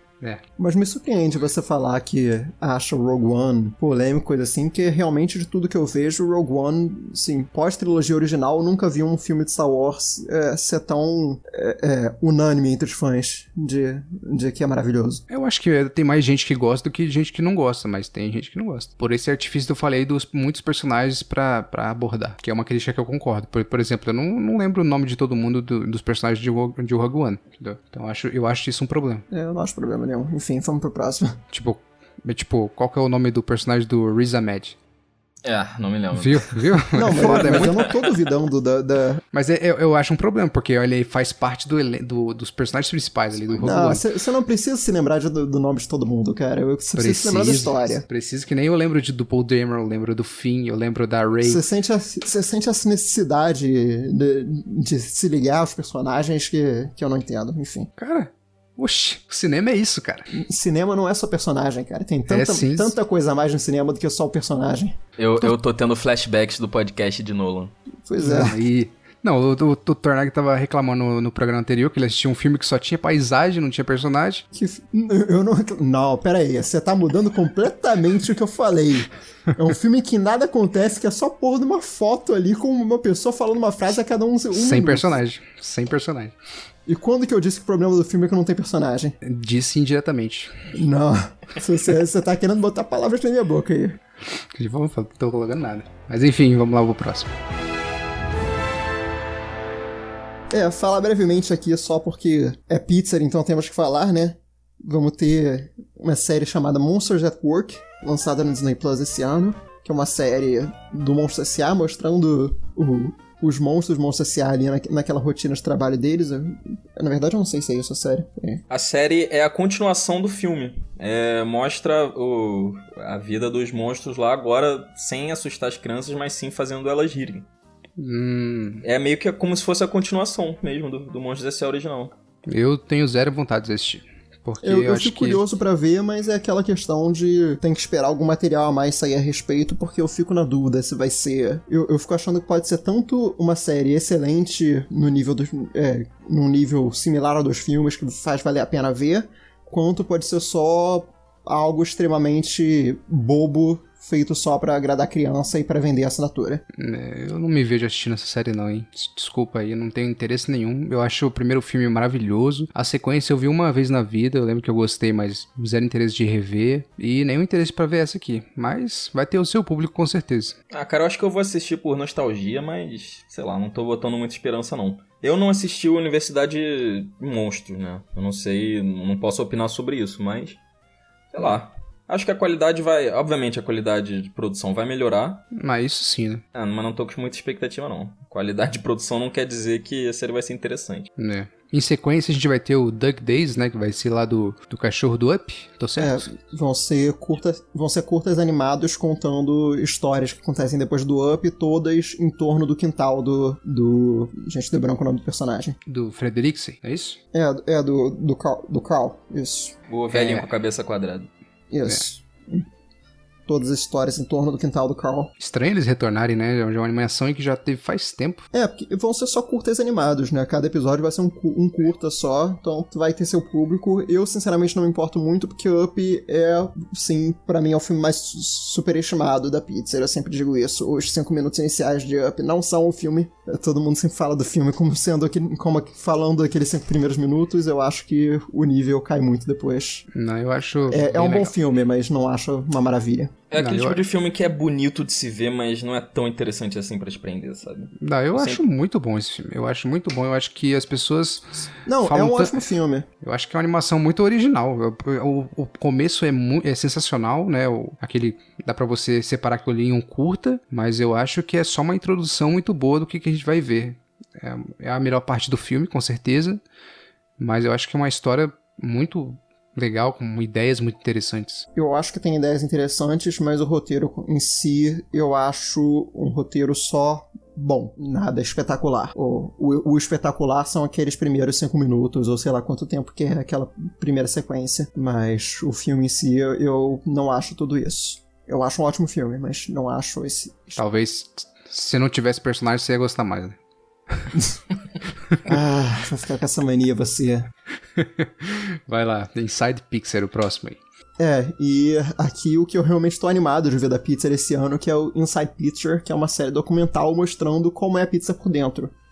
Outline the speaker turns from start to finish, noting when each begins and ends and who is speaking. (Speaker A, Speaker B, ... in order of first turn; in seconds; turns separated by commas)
Speaker A: 0.6-15.2, Speaker B: 15.3-29.2, Speaker A: 29.3-31.4, Speaker B: 31.5-34.8, Speaker C: 35.4-38.0, Speaker B: 36.1-37.7, Speaker A: 36.9-39.2, Speaker B: 39.3-44.0, Speaker A: 43.5-48.0, Speaker B: 47.0-51.6, Speaker A: 51.4-57.9, Speaker B: 58.0-60.3, Speaker A: 60.3-65.0, Speaker B: 62.3-63.0, Speaker C: 65.2-67.7, Speaker A: 68.0-68.6, Speaker B: 68.2-74.4, Speaker A: 74.5-85.2, Speaker B: 84.5-86.3, Speaker A: 86.8-89.2, Speaker B: 89.2-90.7, Speaker A: 90.7-94.0, Speaker B: 94.3-97.3, Speaker A: 100.5-118.6, Speaker C: 118.7-127.5, Speaker B: 128.0-128.8, Speaker C: 128.8-132.1, Speaker B: 132.5-135.4, Speaker A: 134.6-156.6, Speaker B: 156.7-170.6, Speaker C: 170.7-180.6, Speaker C: 181.3-185.4, Speaker B: 185.5-186.4, Speaker C: 186.5-191.1, Speaker B: 191.2-196.3, Speaker A: 196.0-205.8, Speaker B: 205.8-207.2, Speaker A: 207.3-209.7, Speaker C: 209.9-211.3, Speaker B: 210.1-210.5, Speaker A: 211.7-212.7, Speaker A: 213.5-215.3, Speaker B: 215.4-218.4, Speaker A: 218.5-240.1, Speaker B: 240.1-241.5, Speaker A: 240.9-243.3, Speaker C: 243.5-248.6, Speaker B: 243.6-244.0, Speaker B: 248.0-252.6, Speaker A: 251.8-253.1, Speaker B: 253.2-266.6, Speaker B: 267.4-271.6, Speaker A: 271.7-290.8, Speaker B: 290.8-293.6, Speaker B: 294.1-294.4, Speaker A: 295.4-297.5, Speaker B: 297.9-300.8, Speaker A: 301.2-308.9